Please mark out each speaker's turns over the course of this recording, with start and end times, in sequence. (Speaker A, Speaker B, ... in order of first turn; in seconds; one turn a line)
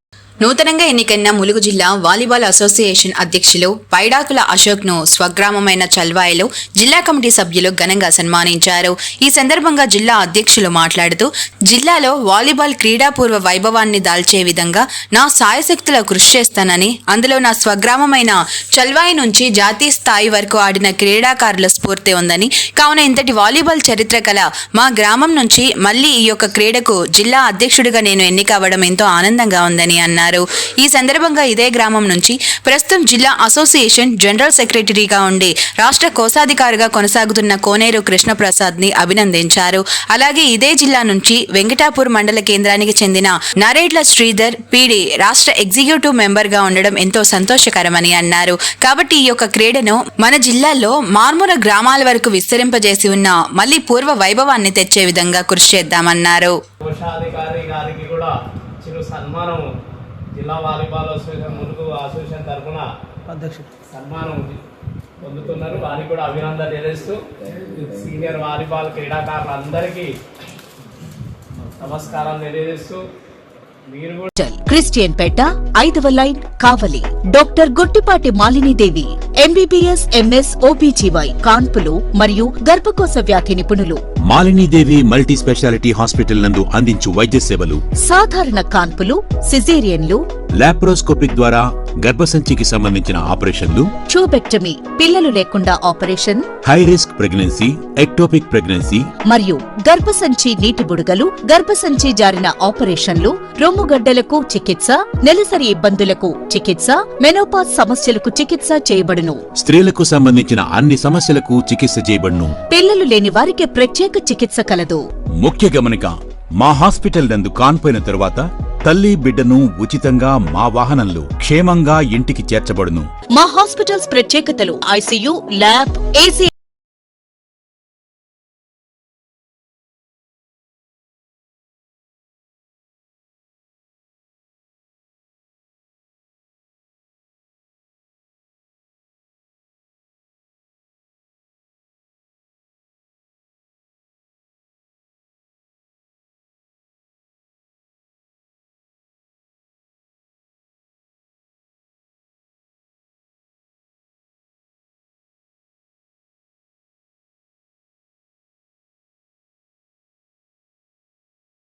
Speaker A: 0.4-56.5
Speaker B: 56.8-59.7
Speaker B: 60.3-62.9
Speaker B: 63.8-64.5
Speaker B: 65.2-70.1
Speaker B: 71.8-73.0
Speaker B: 73.9-74.3
Speaker C: 74.3-84.0
Speaker D: 84.2-87.8
Speaker C: 88.0-90.2
Speaker D: 90.6-93.9
Speaker C: 94.1-96.5
Speaker D: 96.6-99.1
Speaker C: 99.3-109.4
Speaker D: 109.5-112.5
Speaker C: 112.7-115.0
Speaker D: 115.4-123.1
Speaker C: 123.3-126.5